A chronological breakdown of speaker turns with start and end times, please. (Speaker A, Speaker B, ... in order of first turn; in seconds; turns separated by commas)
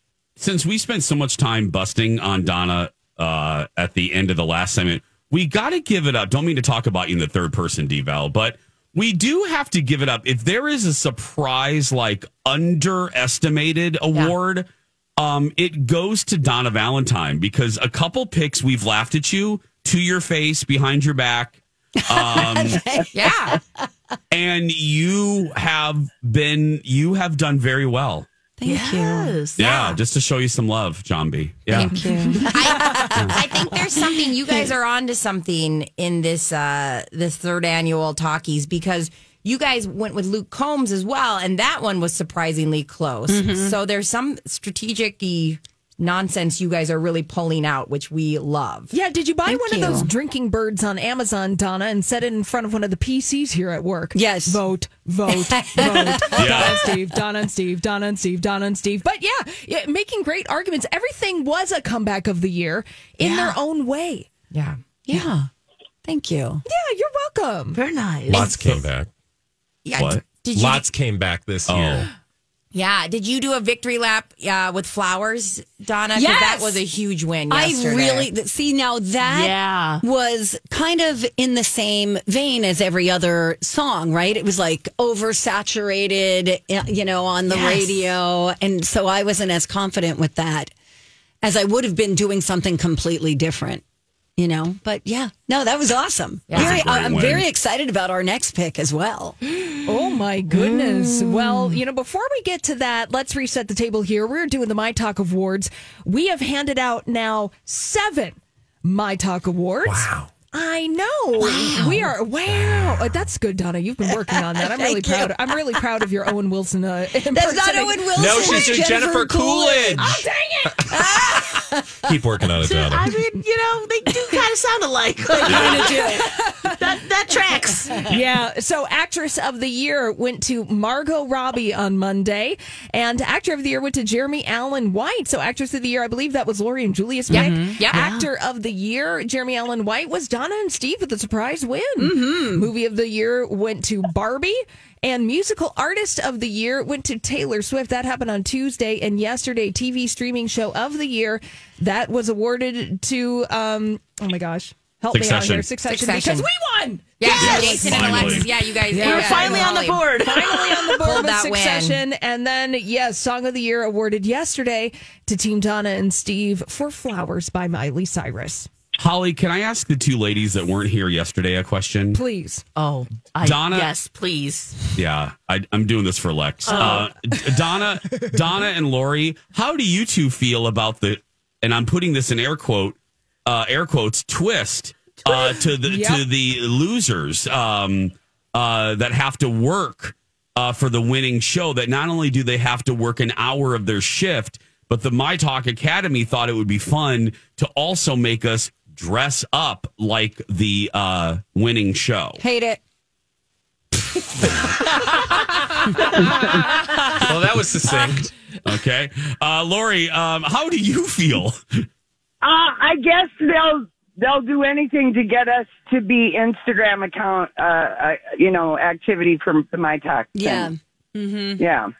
Speaker A: 0.4-14.7, Speaker A: 15.2-22.8, Speaker B: 22.0-23.6, Speaker C: 23.1-23.6, Speaker A: 24.3-28.3, Speaker B: 28.6-29.4, Speaker D: 28.6-29.9, Speaker A: 29.6-32.1, Speaker B: 31.7-34.0, Speaker C: 32.5-48.9, Speaker B: 43.3-43.8, Speaker E: 48.9-64.3, Speaker B: 49.5-50.1, Speaker B: 54.1-54.6, Speaker B: 55.3-56.8, Speaker A: 56.3-56.9, Speaker D: 63.2-63.6, Speaker C: 64.5-65.2, Speaker B: 65.1-65.5, Speaker B: 66.0-66.6, Speaker E: 66.7-67.8, Speaker D: 67.7-68.5, Speaker F: 68.3-69.1, Speaker A: 68.5-68.8, Speaker C: 69.8-70.9, Speaker A: 70.0-70.2, Speaker F: 70.5-72.1, Speaker A: 71.7-72.1, Speaker C: 72.7-78.3, Speaker B: 76.1-76.8, Speaker B: 77.5-90.7, Speaker D: 79.2-80.0, Speaker D: 87.5-87.9, Speaker B: 91.4-93.8, Speaker B: 94.4-99.4, Speaker C: 96.5-96.8, Speaker A: 96.5-97.5, Speaker D: 99.4-100.0, Speaker E: 99.9-118.7, Speaker D: 100.5-101.8, Speaker F: 109.8-110.3, Speaker B: 111.4-112.1, Speaker B: 114.3-115.6, Speaker B: 117.3-120.2, Speaker F: 118.2-121.0, Speaker B: 120.9-122.1, Speaker F: 122.0-123.2, Speaker D: 122.6-128.2, Speaker B: 125.4-126.2, Speaker A: 125.5-125.8, Speaker E: 125.5-126.8, Speaker E: 128.1-158.2, Speaker B: 137.3-137.8, Speaker C: 137.3-137.9, Speaker D: 137.9-138.3, Speaker B: 142.0-142.7, Speaker A: 155.1-155.7, Speaker C: 155.8-156.5, Speaker C: 157.2-160.0, Speaker D: 157.3-158.3, Speaker A: 157.3-158.5, Speaker E: 158.9-168.7, Speaker D: 158.9-161.0, Speaker C: 161.0-162.0, Speaker A: 169.0-172.2, Speaker E: 172.1-172.6, Speaker D: 172.8-174.8, Speaker A: 173.4-173.9, Speaker A: 175.0-202.4, Speaker E: 176.7-177.4, Speaker D: 176.7-177.0, Speaker E: 185.3-186.2, Speaker B: 202.4-202.8, Speaker F: 207.1-208.3, Speaker A: 208.7-211.9, Speaker G: 212.4-220.7, Speaker B: 220.3-221.6, Speaker G: 221.6-221.9